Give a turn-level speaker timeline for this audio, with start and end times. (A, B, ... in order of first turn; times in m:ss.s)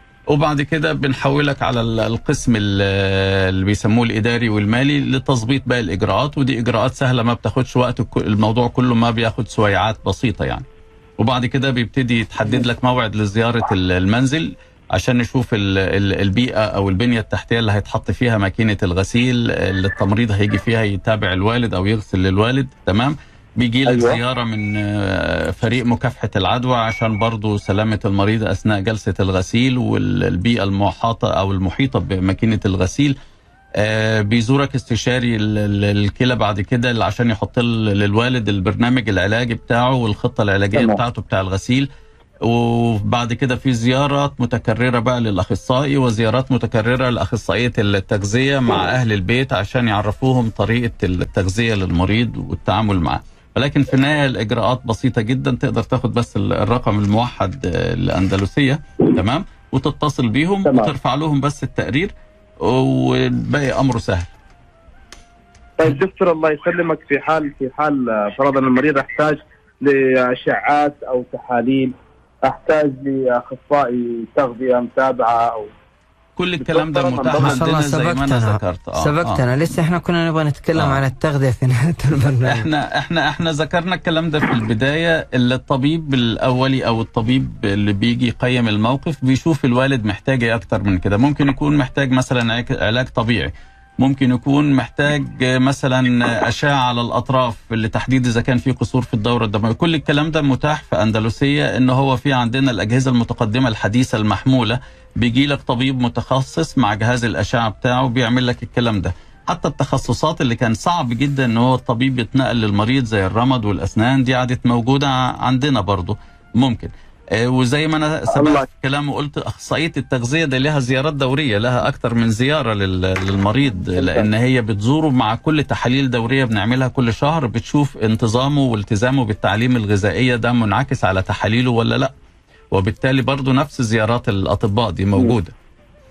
0:00.3-0:10.6 A
0:11.2-0:33.2 A
0:23.9-0:24.2 B
0:33.8-0:41.9 A
0:40.7-0:41.0 B
0:42.4-1:04.3 A
1:00.6-1:00.9 B
1:05.8-1:15.7 B
1:16.4-1:19.4 A
1:16.6-1:17.6 B
1:17.4-1:22.7 C
1:20.8-1:21.0 A
1:22.4-2:12.1 A
1:58.3-1:58.7 B
2:03.9-2:04.3 B
2:12.7-2:15.5 A